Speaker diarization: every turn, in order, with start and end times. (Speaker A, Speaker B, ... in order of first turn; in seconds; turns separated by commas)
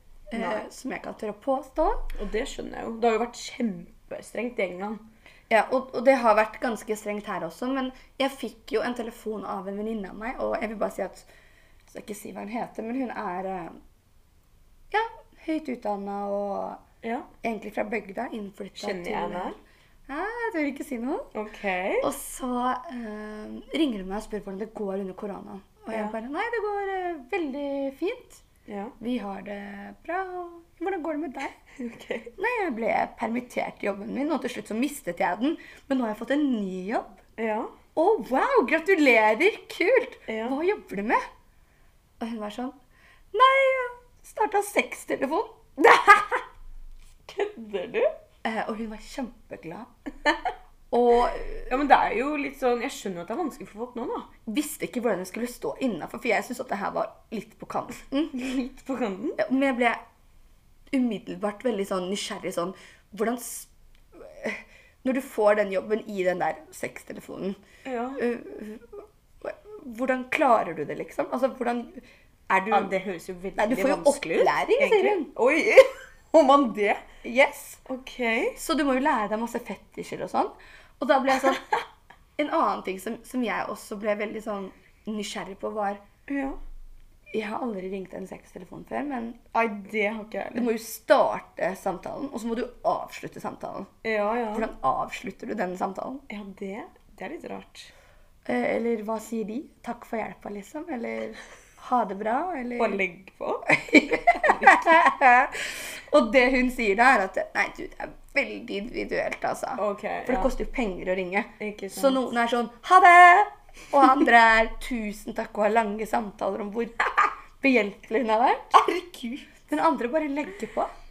Speaker A: 0.3-2.0, Speaker B: 0.3-0.6, Speaker B: 2.1-5.0, Speaker A: 5.5-11.3, Speaker A: 11.9-13.8, Speaker A: 14.9-16.8, Speaker B: 17.0-17.3, Speaker A: 17.4-19.6, Speaker B: 18.8-19.6, Speaker A: 20.1-21.3, Speaker B: 21.3-22.1, Speaker A: 22.0-28.4, Speaker B: 28.7-28.9, Speaker A: 29.0-31.5, Speaker B: 31.8-32.3, Speaker A: 32.4-37.2, Speaker B: 37.4-37.7, Speaker A: 37.9-41.2, Speaker B: 40.3-40.5, Speaker A: 42.2-42.7, Speaker A: 43.3-45.6, Speaker B: 45.8-46.4, Speaker B: 47.3-48.1, Speaker A: 48.4-49.9, Speaker A: 50.9-51.7, Speaker B: 51.7-54.3, Speaker A: 54.5-58.4, Speaker B: 58.3-59.4, Speaker A: 59.4-60.0, Speaker A: 60.9-67.6, Speaker B: 67.8-68.2, Speaker A: 68.2-72.9, Speaker B: 72.7-77.0, Speaker A: 73.6-75.3, Speaker A: 77.2-77.8, Speaker B: 77.9-78.6, Speaker A: 78.5-81.7, Speaker A: 82.4-86.0, Speaker B: 86.3-86.6, Speaker A: 87.3-89.4, Speaker B: 89.5-90.7, Speaker A: 90.5-93.9, Speaker B: 94.0-94.7, Speaker A: 94.5-96.2, Speaker B: 96.3-97.9, Speaker A: 98.5-103.0, Speaker B: 102.8-103.7, Speaker A: 103.7-118.8, Speaker B: 104.3-105.0, Speaker B: 109.8-110.5, Speaker B: 111.6-112.3, Speaker B: 118.7-119.5, Speaker A: 119.7-120.9